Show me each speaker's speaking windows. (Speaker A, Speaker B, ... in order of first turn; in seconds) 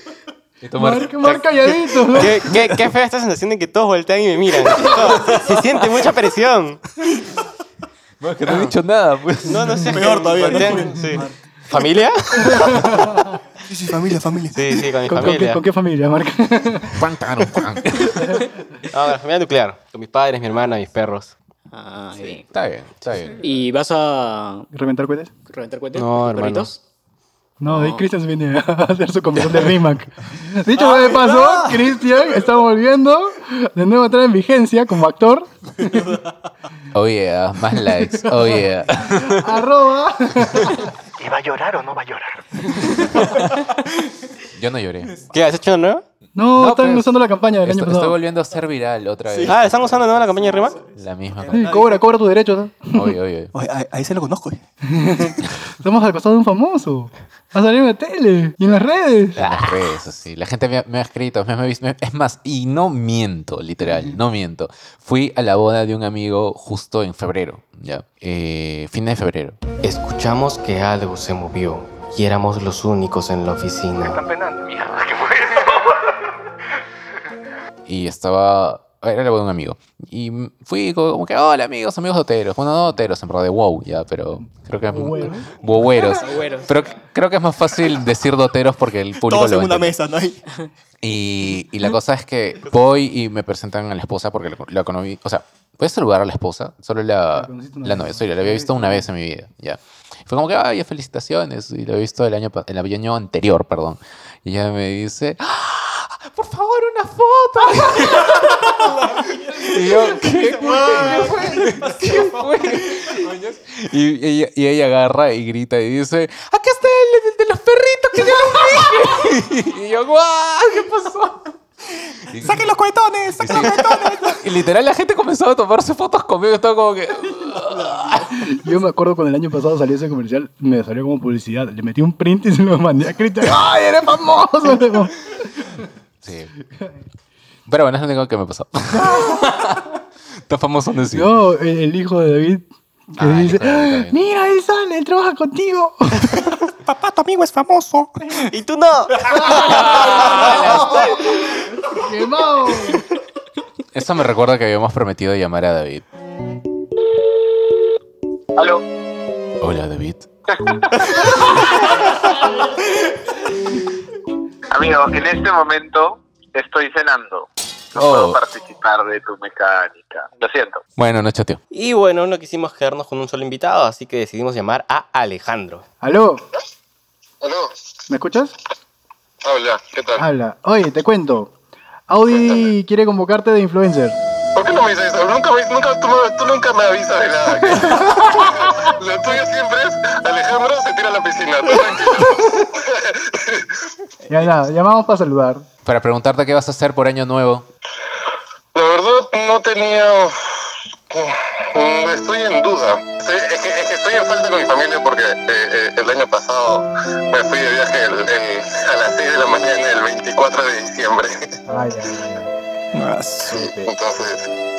Speaker A: 0.6-1.1, 8.2-10.0, 16.9-18.4, 22.3-23.4, 36.9-39.6, 44.5-45.1, 46.6-50.3, 51.0-51.7, 52.9-53.5, 59.4-69.6, 77.9-90.0, 91.0-121.5, 122.3-122.7, 123.4-128.2, 136.2-136.5, 137.7-139.9, 140.5-141.3, 143.2-144.2, 150.4-150.8, 153.9-156.0, 159.6-160.3, 167.9-168.4, 171.0-171.6, 195.8-197.7
Speaker B: 0.8-2.7, 12.9-13.3, 15.1-17.0, 24.7-25.3, 27.6-36.2, 39.1-43.0, 46.4-48.2, 51.5-53.2, 54.8-59.4, 84.9-85.5, 97.3-99.0, 128.2-135.8, 138.9-139.5, 141.1-146.4, 149.4-149.9, 150.4-153.1, 176.0-176.4, 178.1-178.5, 180.2-181.5, 182.1-184.2, 187.7-188.1, 194.3-195.7, 211.7-212.5, 213.5-213.9
Speaker C: 1.2-6.8, 8.4-8.7, 9.5-13.0, 14.5-15.6, 18.9-21.3, 25.9-26.7, 45.3-46.0, 49.5-50.8, 59.4-59.8, 69.8-74.2, 148.4-150.9, 161.1-161.5, 171.7-175.8
Speaker D: 9.9-11.4, 13.7-15.3, 30.8-32.2, 49.3-49.6, 50.3-52.1, 53.5-54.6, 74.0-74.9, 89.2-90.4, 108.3-112.8, 122.3-124.4, 146.8-148.5, 150.2-150.8, 212.9-213.6
Speaker E: 21.7-22.5, 23.4-24.7, 25.5-26.8, 27.6-28.1, 86.1-86.7
Speaker F: 158.6-158.8, 164.7-170.8
Speaker G: 177.4-177.7, 179.4-180.2, 184.6-193.8, 198.7-211.5, 213.5-214.5